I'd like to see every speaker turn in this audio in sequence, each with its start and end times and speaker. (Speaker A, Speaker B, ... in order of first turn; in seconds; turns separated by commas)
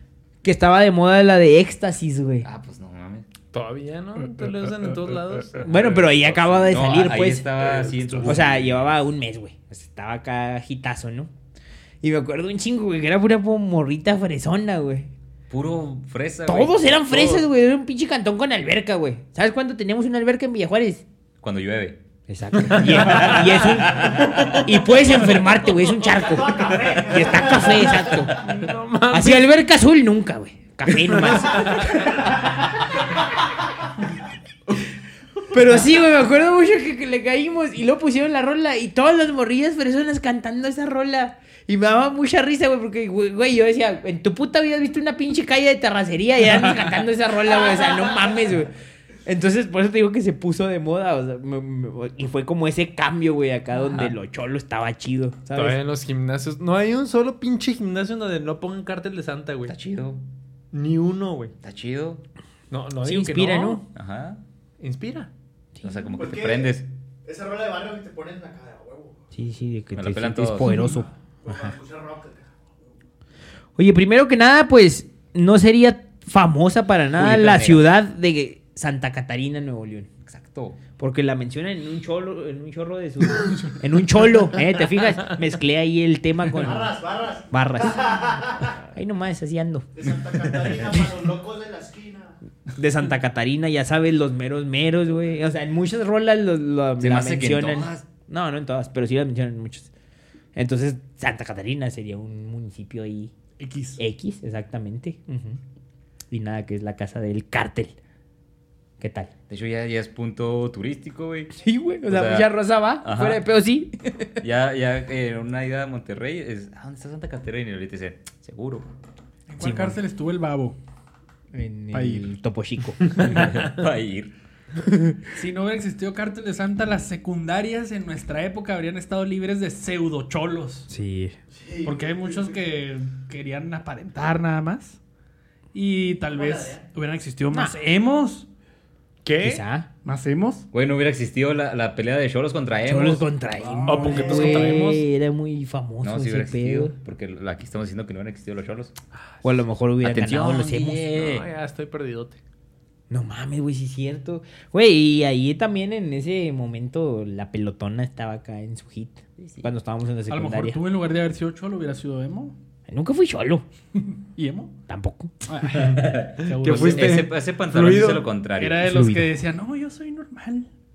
Speaker A: 0.4-2.5, Speaker B: 2.4-3.3, Speaker C: 3.5-6.2, Speaker A: 5.6-7.5, Speaker B: 5.8-8.9, Speaker C: 7.6-8.5, Speaker A: 8.2-11.3, Speaker A: 12.0-15.1, Speaker B: 15.5-17.4, Speaker A: 16.4-21.0, Speaker B: 21.4-22.0, Speaker A: 22.3-28.4, Speaker C: 22.7-23.3, Speaker B: 22.9-24.8, Speaker D: 26.0-28.4, Speaker C: 28.3-29.5, Speaker A: 29.1-32.4, Speaker C: 30.9-31.9, Speaker A: 35.5-48.7, Speaker A: 49.2-55.8, Speaker C: 55.5-59.7, Speaker B: 59.6-60.2, Speaker C: 60.7-61.5, Speaker B: 61.6-62.2, Speaker C: 62.7-63.8, Speaker A: 63.0-63.8, Speaker B: 63.9-64.4, Speaker C: 64.8-65.3, Speaker A: 65.8-66.0, Speaker B: 65.8-66.9, Speaker D: 66.1-69.2, Speaker A: 69.3-71.7, Speaker B: 69.9-70.8, Speaker D: 70.9-72.6, Speaker A: 73.8-80.1, Speaker B: 77.2-77.9, Speaker B: 80.2-80.8, Speaker A: 81.0-86.9, Speaker D: 86.5-88.7, Speaker A: 87.5-88.2, Speaker A: 88.8-89.9, Speaker D: 90.0-92.3, Speaker A: 92.7-99.9, Speaker B: 97.0-98.1, Speaker A: 100.5-103.3, Speaker E: 103.6-104.0, Speaker A: 104.0-105.6, Speaker A: 106.3-107.9, Speaker A: 109.0-109.3, Speaker B: 109.5-111.5, Speaker A: 111.6-114.3, Speaker B: 112.0-112.5, Speaker B: 113.0-113.4, Speaker B: 114.4-118.9, Speaker E: 119.5-120.8, Speaker A: 119.6-120.0, Speaker A: 121.5-123.5, Speaker E: 121.9-122.3, Speaker C: 123.0-123.3, Speaker B: 123.2-124.3, Speaker A: 124.9-125.2, Speaker E: 125.3-130.9, Speaker A: 130.9-131.3, Speaker D: 131.5-132.5, Speaker E: 131.8-135.0, Speaker E: 135.7-138.5, Speaker D: 136.3-136.8, Speaker A: 137.5-137.8, Speaker C: 139.2-139.6, Speaker A: 139.4-139.9, Speaker E: 140.0-140.7, Speaker B: 140.7-143.3, Speaker A: 142.8-146.9, Speaker E: 143.6-144.7, Speaker C: 143.8-145.1, Speaker D: 144.1-144.5, Speaker B: 146.0-148.9, Speaker A: 149.4-151.1, Speaker B: 150.0-151.4, Speaker C: 151.1-152.4, Speaker A: 153.1-160.8, Speaker B: 159.4-159.7, Speaker E: 160.3-162.5, Speaker A: 162.9-163.7, Speaker E: 164.3-164.8, Speaker A: 164.9-165.3, Speaker E: 165.4-167.2, Speaker C: 165.8-168.3, Speaker B: 165.9-168.9, Speaker E: 168.6-170.7, Speaker A: 168.8-169.3